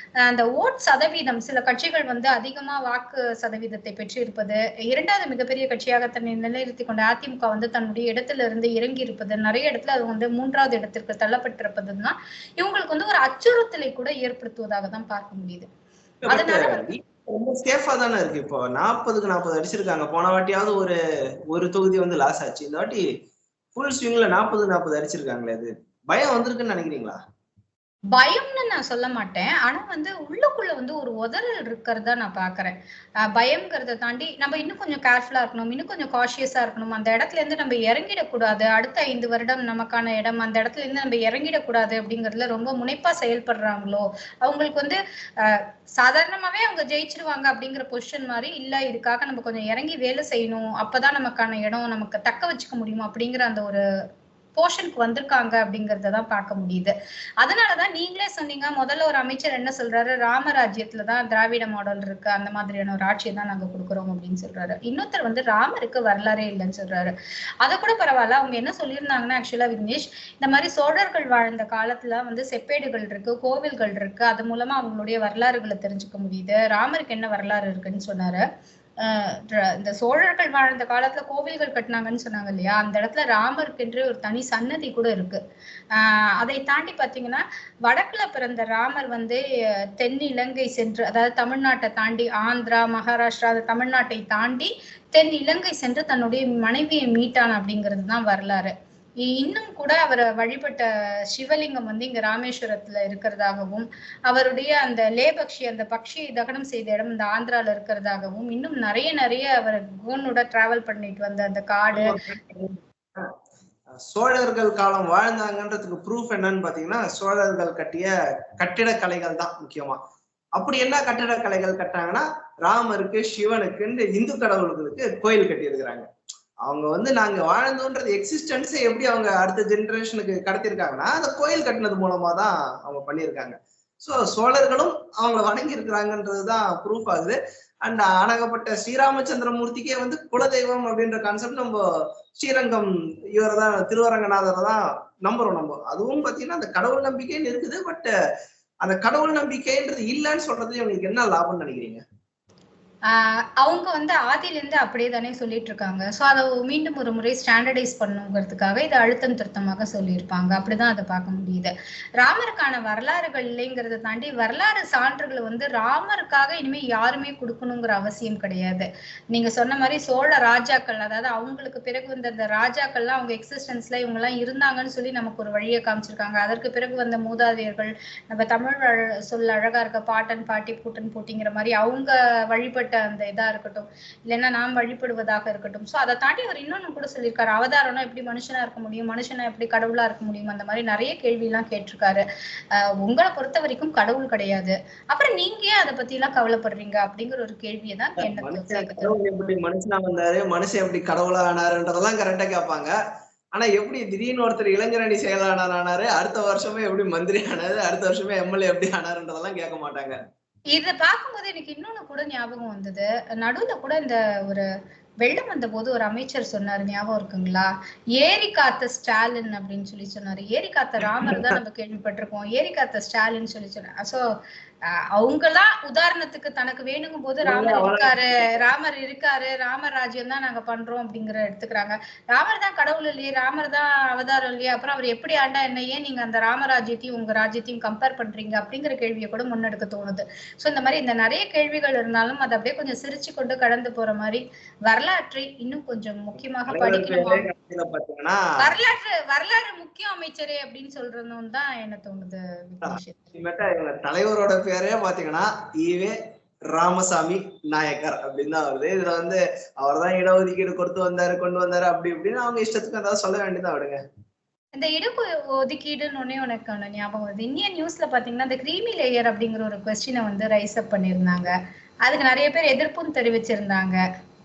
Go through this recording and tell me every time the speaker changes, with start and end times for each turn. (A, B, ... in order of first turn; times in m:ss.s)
0:00.2-0:15.7 A
0:16.2-0:21.0 B
0:16.3-0:16.8 A
0:21.5-0:23.0 B
0:23.7-0:27.2 B
0:28.1-0:53.8 A
0:54.6-1:18.4 A
1:19.0-1:25.4 A
1:25.9-1:29.4 A
1:30.0-1:52.1 A
1:51.9-1:53.3 B
1:54.0-2:00.0 B
2:00.6-2:06.1 B
2:06.6-2:21.8 B
2:22.4-2:28.1 B
2:28.8-2:32.0 B
2:33.1-3:12.2 A
3:12.7-3:19.1 A
3:18.2-3:22.9 B
3:23.5-3:30.2 B
3:30.7-3:34.7 A
3:35.2-3:44.2 A
3:41.0-3:41.5 B
3:45.1-4:07.4 A
3:47.4-3:48.5 B
4:06.7-4:08.4 B
4:08.6-4:13.3 A
4:12.8-4:16.1 B
4:16.7-4:24.0 B
4:24.8-4:31.5 A
4:32.0-4:34.0 A